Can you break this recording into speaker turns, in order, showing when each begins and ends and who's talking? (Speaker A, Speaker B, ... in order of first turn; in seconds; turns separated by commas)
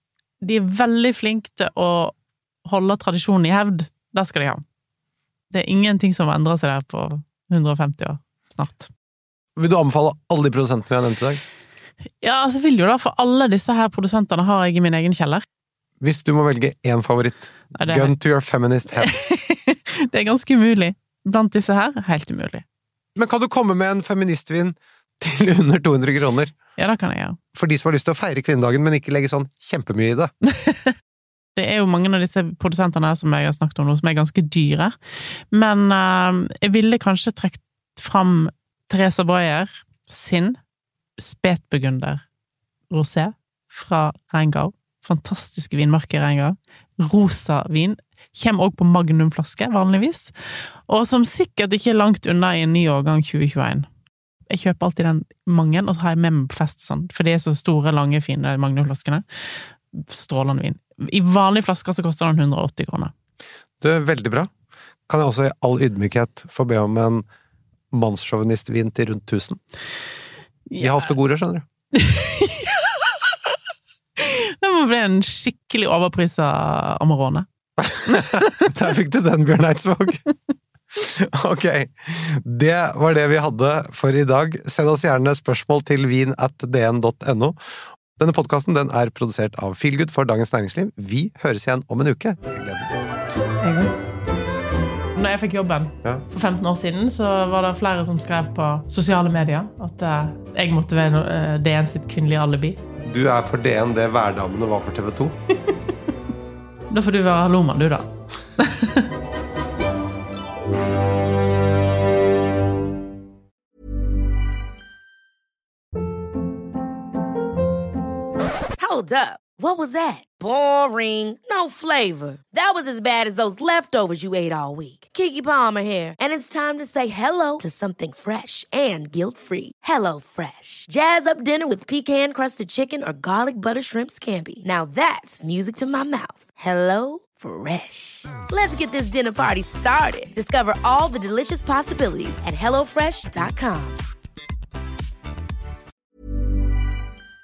Speaker A: 0.4-4.6, Speaker A: 5.5-8.9, Speaker B: 9.6-11.4, Speaker A: 12.2-15.4, Speaker B: 16.0-19.1, Speaker A: 17.8-18.1, Speaker A: 19.0-22.6, Speaker B: 23.1-26.5, Speaker A: 26.8-27.4, Speaker B: 27.5-30.3, Speaker A: 30.5-30.9, Speaker A: 31.6-34.9, Speaker A: 35.5-40.6, Speaker A: 41.2-42.2, Speaker A: 42.9-53.9, Speaker A: 54.5-59.2, Speaker A: 59.9-63.1, Speaker B: 63.8-64.5, Speaker B: 65.1-67.2, Speaker B: 67.9-69.6, Speaker A: 70.7-71.1, Speaker B: 70.8-71.6, Speaker A: 71.9-73.1, Speaker A: 74.2-77.5, Speaker B: 77.8-80.2, Speaker A: 78.0-78.7, Speaker B: 80.9-92.9, Speaker A: 93.6-93.9, Speaker A: 95.2-102.8, Speaker B: 103.0-105.3, Speaker A: 106.9-109.0, Speaker C: 118.8-144.0